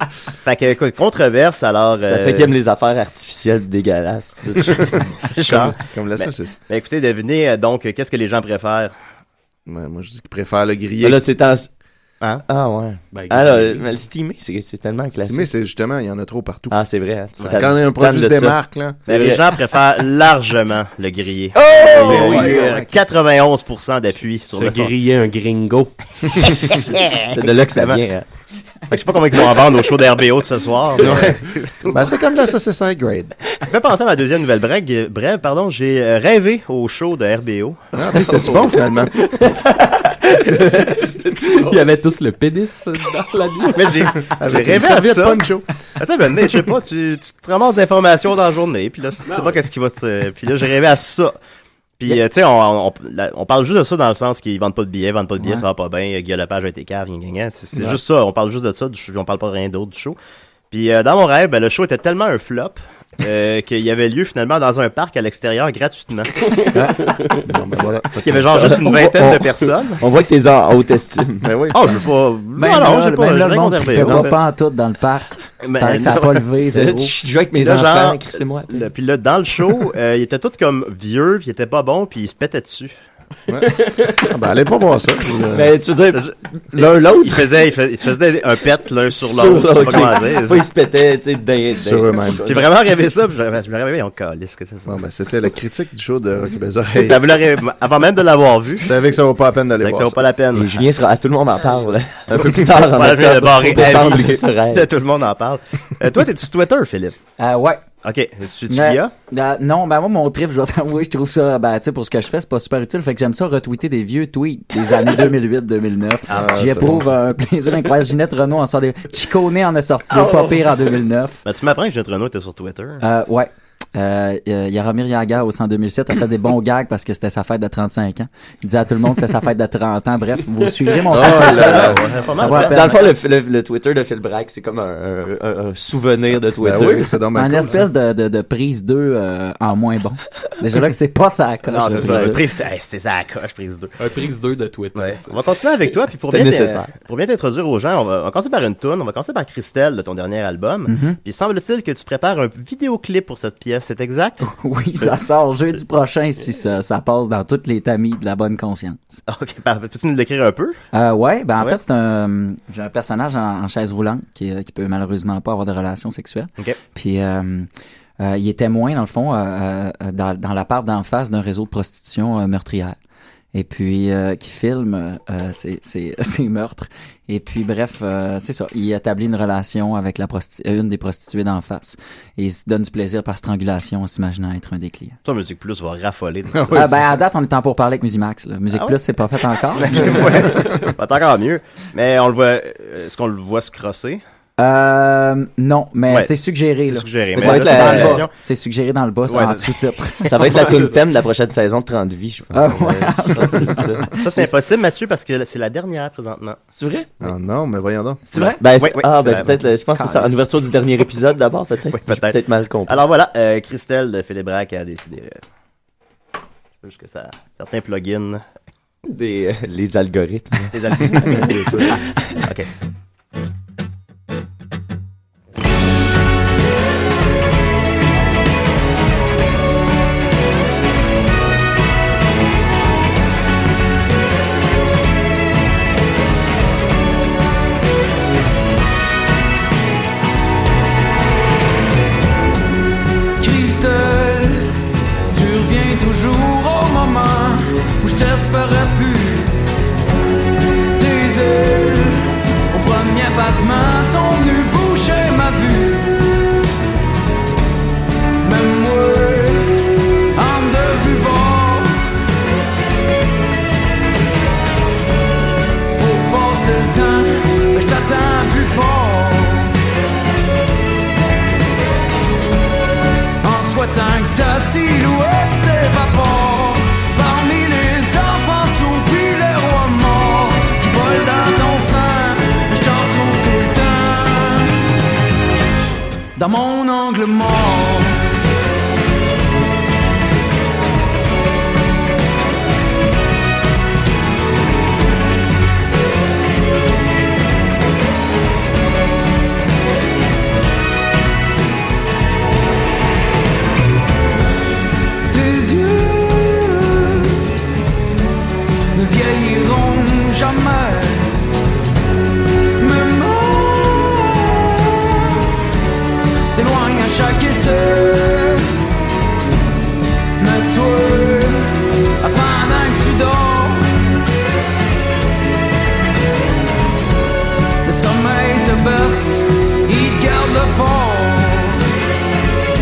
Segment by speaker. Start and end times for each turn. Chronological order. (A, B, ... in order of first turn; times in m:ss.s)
0:00.4-0:02.5 A
0:02.1-0:05.0 B
0:05.2-0:08.9 A
0:05.5-0:06.6 C
0:09.7-0:11.2 C
0:11.0-0:11.7 B
0:12.5-0:15.5 B
0:13.1-0:13.9 D
0:15.2-0:16.8 C
0:16.7-0:19.6 B
0:17.4-0:19.0 C
0:19.1-0:24.9 A
0:21.6-0:22.8 B
0:24.5-0:25.9 D
0:26.3-0:28.0 A
0:26.5-0:28.2 B
0:28.9-0:32.0 A
0:31.0-0:33.4 C
0:33.7-0:38.7 A
0:37.9-0:39.4 C
0:39.3-0:41.8 B
0:41.5-0:43.9 D
0:43.7-0:45.5 A
0:44.2-0:45.7 C
0:46.0-0:51.4 A
0:49.3-0:49.6 D
0:52.0-1:00.2 A
1:00.7-1:06.5 A
1:06.7-1:08.8 C
1:08.2-1:10.0 A
1:08.5-1:11.5 B
1:11.4-1:12.0 C
1:11.7-1:14.4 A
1:12.6-1:17.1 E
1:15.6-1:16.4 A
1:16.7-1:18.9 B
1:17.6-1:22.9 A
1:23.5-1:25.8 C
1:23.9-1:24.2 D
1:25.5-1:27.5 B
1:26.2-1:30.7 A
1:29.1-1:32.7 B
1:31.8-1:32.6 C
1:32.5-1:35.0 A
1:34.9-1:37.2 C
1:37.0-1:38.9 A
1:38.8-1:40.3 C
1:39.8-1:40.9 A
1:40.6-1:44.9 B
1:42.4-1:47.2 A
1:47.4-1:47.8 E
1:48.0-1:49.1 A
1:48.7-2:01.4 E
1:56.3-1:56.6 A
1:56.3-1:57.1 C
2:00.1-2:00.6 B
2:01.4-2:03.0 A
2:03.0-2:13.1 E
2:11.1-2:12.1 C
2:11.4-2:13.1 A
2:12.5-2:17.1 B
2:16.6-2:17.9 C
2:17.3-2:22.4 E
2:21.7-2:24.0 A
2:21.7-2:22.4 B
2:24.0-2:25.4 D
2:25.0-2:34.4 A
2:26.3-2:26.9 B
2:30.9-2:31.2 E
2:34.4-2:39.2 E
2:39.3-2:40.8 A
2:40.9-2:53.0 E
2:53.5-3:05.2 E
3:05.2-3:06.9 A
3:06.5-3:07.0 C
3:06.7-3:10.6 E
3:09.7-3:14.2 A
3:10.6-3:10.9 D
3:14.6-3:20.3 E
3:16.1-3:18.3 A
3:17.4-3:18.3 B
3:19.3-3:19.8 A
3:20.3-3:24.1 B
3:20.5-3:21.0 D
3:22.5-3:24.5 E
3:24.2-3:26.6 A
3:26.8-3:27.1 B
3:27.2-3:28.2 C
3:28.3-3:28.6 E
3:28.3-3:29.6 A
3:28.6-3:33.0 B
3:30.0-3:30.4 E
3:31.9-3:35.4 A
3:36.8-3:38.4 A
3:39.1-3:41.4 B
3:40.7-3:41.8 A
3:41.1-3:42.1 C
3:42.4-3:42.7 A
4:03.4-4:04.6 F
4:05.3-4:09.6 F
4:11.0-4:16.2 F
4:18.4-4:22.0 F
4:26.0-4:29.7 F
4:33.4-4:44.8 F
4:46.4-4:48.3 F
5:05.3-5:07.4 F
5:09.0-5:11.3 F
5:12.8-5:15.1 F
5:16.5-5:18.8 F
5:20.4-5:23.9 F
5:27.8-5:31.8 F